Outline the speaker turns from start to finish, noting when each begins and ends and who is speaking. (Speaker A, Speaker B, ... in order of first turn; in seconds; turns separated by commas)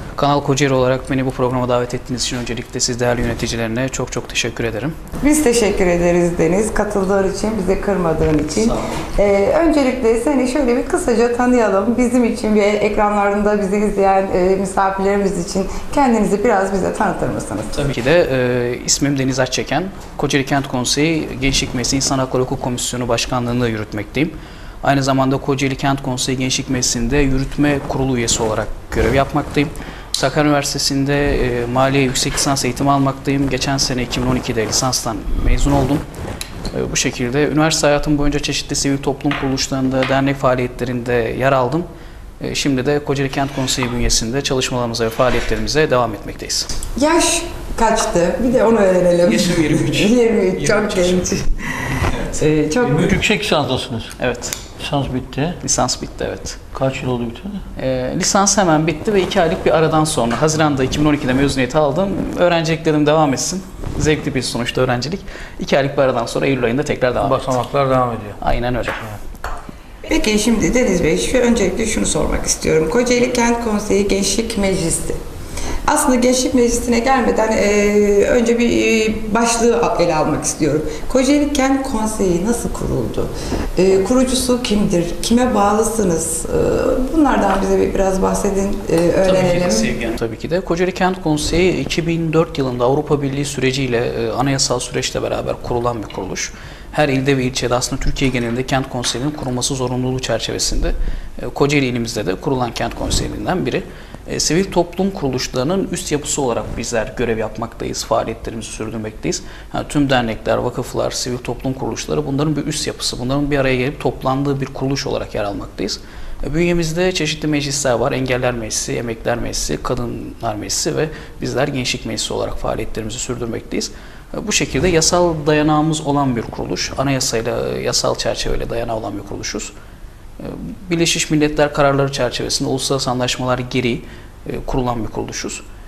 Speaker A: 0.2-5.0, Speaker B: 5.2-17.8, Speaker A: 8.6-8.9, Speaker A: 17.7-36.0, Speaker A: 36.7-41.9, Speaker A: 42.4-46.7, Speaker B: 47.0-53.2, Speaker A: 49.2-51.2, Speaker C: 52.8-54.1, Speaker A: 54.2-54.6, Speaker C: 54.8-55.6, Speaker A: 55.6-56.7, Speaker C: 56.7-57.6, Speaker A: 57.8-67.5, Speaker C: 67.2-68.4, Speaker A: 68.4-69.1, Speaker B: 70.1-75.2, Speaker B: 75.9-89.9, Speaker A: 89.2-129.7, Speaker A: 130.4-135.6